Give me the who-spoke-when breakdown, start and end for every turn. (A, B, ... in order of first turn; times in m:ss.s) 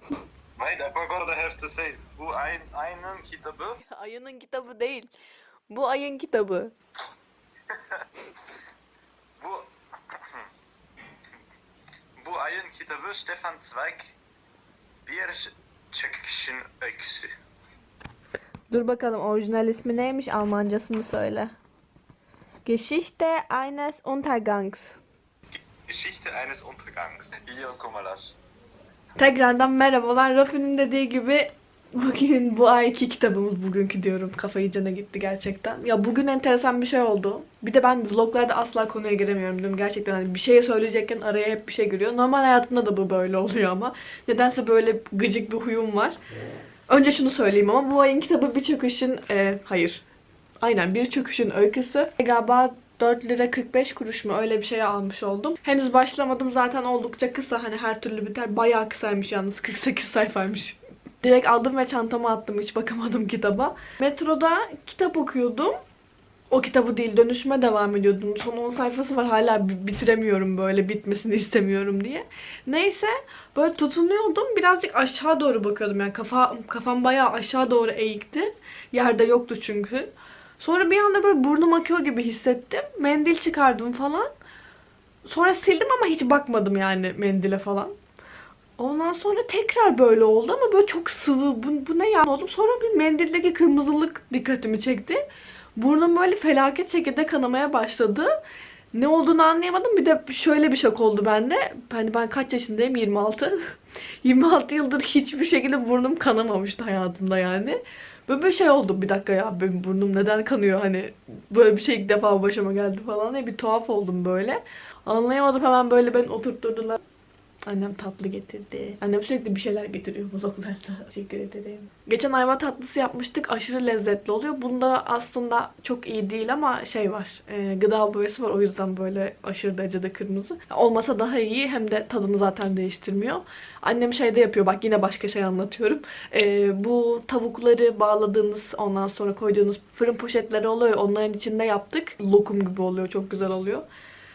0:00.6-0:03.8 A
0:03.8-0:05.1 B
0:05.7-0:06.7 B
0:07.7-0:08.1 A
0:09.4-0:10.5 A
0:12.2-0:14.1 A
0:15.0-0:17.3 A
0:18.7-0:21.5 B
0:22.6-0:25.0 B
0:25.5-0:28.3 A
0:29.2-0:46.2 B
0:46.9-0:50.0 B
0:50.6-1:05.8 B
1:06.5-1:24.3 B
1:25.2-1:27.9 B
1:28.8-1:35.2 B
1:35.8-1:38.3 B
1:38.9-1:43.6 B
1:44.2-1:57.0 B
1:57.7-2:23.8 B